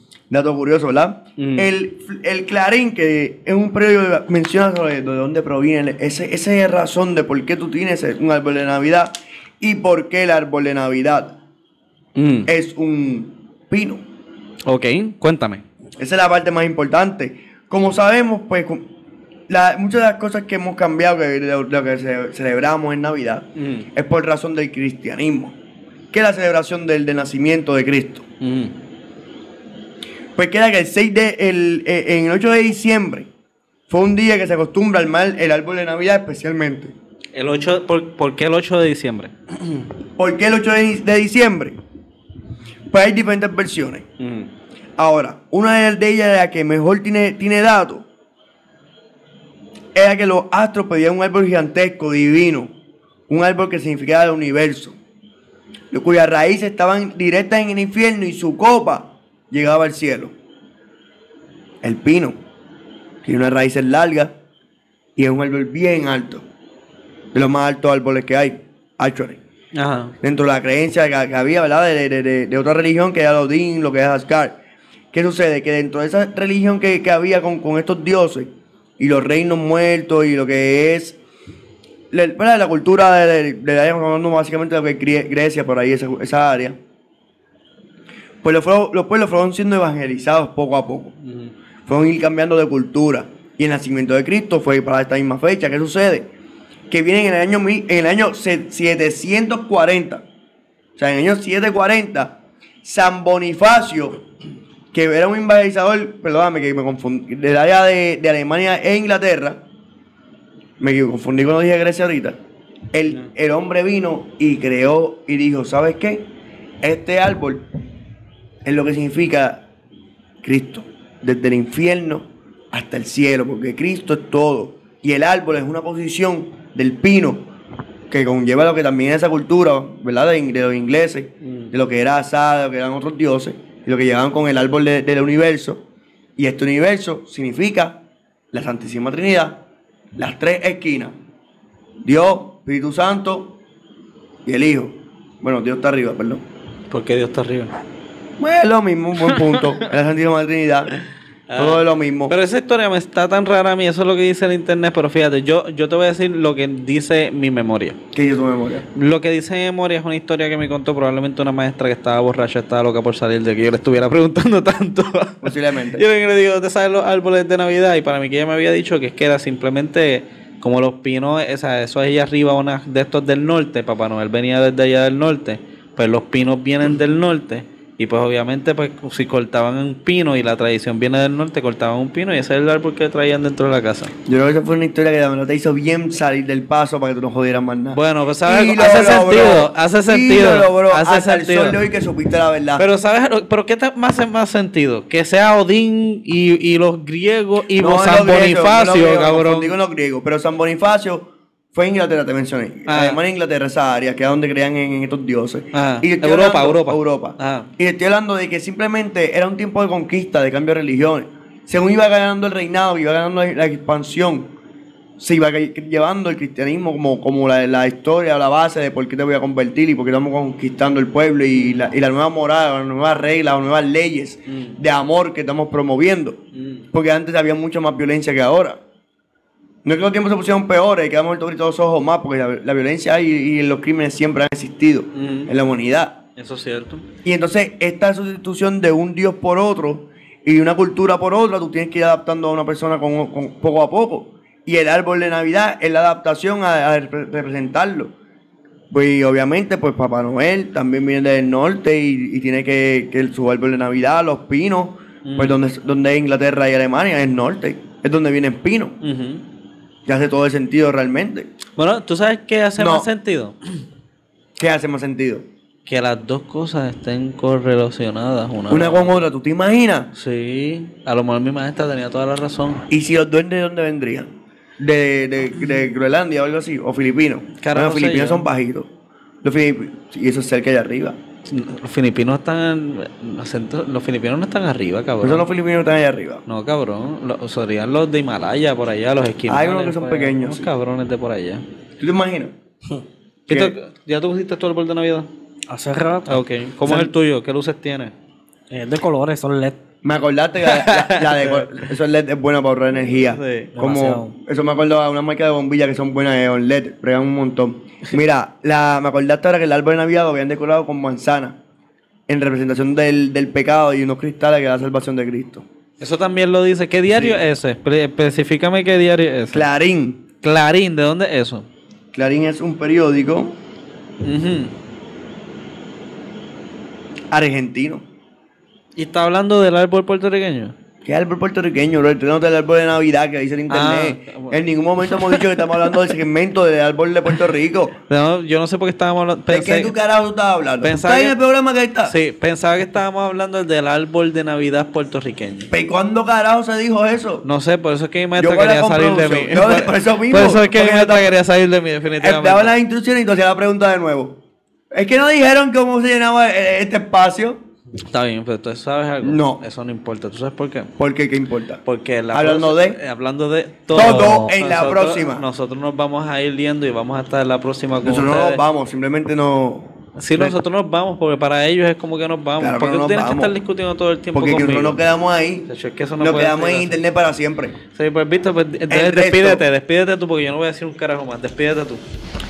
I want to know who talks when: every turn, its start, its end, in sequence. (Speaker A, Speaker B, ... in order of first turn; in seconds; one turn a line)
Speaker A: 0.3-11.3
Speaker B: 1.4-1.7
Speaker B: 12.2-12.5
Speaker A: 12.4-14.0
Speaker B: 14.7-15.6
Speaker A: 16.0-18.9
Speaker A: 19.5-25.6
Speaker B: 23.6-23.9
Speaker A: 26.1-28.2
Speaker B: 28.4-28.7
Speaker A: 30.3-33.3
Speaker A: 33.9-36.9
Speaker B: 37.3-39.8
Speaker A: 40.2-41.8
Speaker A: 42.9-44.1
Speaker B: 44.2-44.5
Speaker A: 45.0-48.0
Speaker A: 49.9-52.7
Speaker A: 53.3-55.0
Speaker A: 55.9-60.3
Speaker A: 61.8-62.4
Speaker A: 63.2-64.3
Speaker A: 65.2-66.4
Speaker A: 67.3-69.4
Speaker B: 69.7-70.1
Speaker A: 70.2-74.6
Speaker A: 75.1-81.2
Speaker A: 82.1-86.8
Speaker A: 88.4-91.2
Speaker B: 91.2-91.5
Speaker A: 91.9-96.3
Speaker A: 96.9-100.2
Speaker A: 101.0-104.2
Speaker A: 104.9-109.6
Speaker A: 110.8-112.4
Speaker A: 112.9-116.3
Speaker A: 116.8-117.7
Speaker A: 118.6-119.6
Speaker A: 120.4-127.5
Speaker A: 128.1-135.8
Speaker B: 131.4-131.7
Speaker A: 136.4-138.0
Speaker A: 138.5-139.6
Speaker A: 140.2-141.1
Speaker A: 142.0-143.6
Speaker A: 144.4-146.4
Speaker B: 146.9-147.7
Speaker A: 148.4-150.9
Speaker B: 149.3-149.6
Speaker B: 151.5-158.0
Speaker A: 151.6-152.3
Speaker A: 158.1-158.9
Speaker B: 158.9-184.1
Speaker A: 165.4-166.0
Speaker A: 184.2-192.8
Speaker B: 187.9-191.8
Speaker B: 192.8-199.7
Speaker A: 197.8-214.5
Speaker B: 202.9-203.2
Speaker B: 205.7-207.7
Speaker A: 215.2-226.4
Speaker B: 224.5-224.7
Speaker B: 226.5-226.8
Speaker A: 226.9-228.8
Speaker A: 229.8-236.2
Speaker B: 235.1-235.5
Speaker B: 236.4-237.1
Speaker A: 237.2-248.1
Speaker A: 248.9-259.0
Speaker B: 255.2-255.6
Speaker B: 259.0-259.4
Speaker A: 260.1-261.5
Speaker B: 261.8-263.6
Speaker A: 262.8-263.1
Speaker A: 264.6-265.4
Speaker B: 265.9-269.2
Speaker A: 268.7-270.1
Speaker B: 270.1-272.9
Speaker A: 272.9-278.9
Speaker B: 277.6-278.4
Speaker A: 279.4-281.2
Speaker B: 281.5-285.4
Speaker A: 285.2-286.4
Speaker B: 286.5-291.6
Speaker A: 289.5-290.7
Speaker A: 292.0-292.5
Speaker B: 293.5-295.3
Speaker A: 293.5-293.7
Speaker C: 295.7-296.4
Speaker B: 296.3-298.1
Speaker A: 296.9-297.1
Speaker C: 298.7-299.8
Speaker A: 300.0-311.6
Speaker B: 300.6-301.8
Speaker B: 303.3-303.7
Speaker C: 303.8-304.3
Speaker A: 312.3-315.6
Speaker B: 316.0-319.6
Speaker A: 317.1-317.4
Speaker A: 319.5-320.2
Speaker B: 320.4-321.6
Speaker A: 322.1-323.6
Speaker B: 324.2-324.7
Speaker A: 327.3-328.0
Speaker B: 328.9-330.7
Speaker A: 331.0-338.0
Speaker B: 333.7-335.6
Speaker B: 338.1-339.9
Speaker A: 339.5-342.1
Speaker B: 340.8-341.3
Speaker B: 342.1-345.7
Speaker A: 345.7-347.4
Speaker B: 347.4-352.7
Speaker A: 348.4-351.3
Speaker A: 352.2-354.4
Speaker A: 354.9-357.6
Speaker B: 358.1-360.9
Speaker A: 359.2-359.6
Speaker A: 361.0-363.0
Speaker B: 361.9-368.6
Speaker A: 363.9-365.4
Speaker C: 364.0-364.5
Speaker A: 368.0-370.6
Speaker B: 370.2-375.0
Speaker A: 372.6-373.6
Speaker A: 374.3-375.7
Speaker B: 375.7-377.0
Speaker A: 376.2-377.8
Speaker B: 377.9-382.0
Speaker A: 378.9-379.6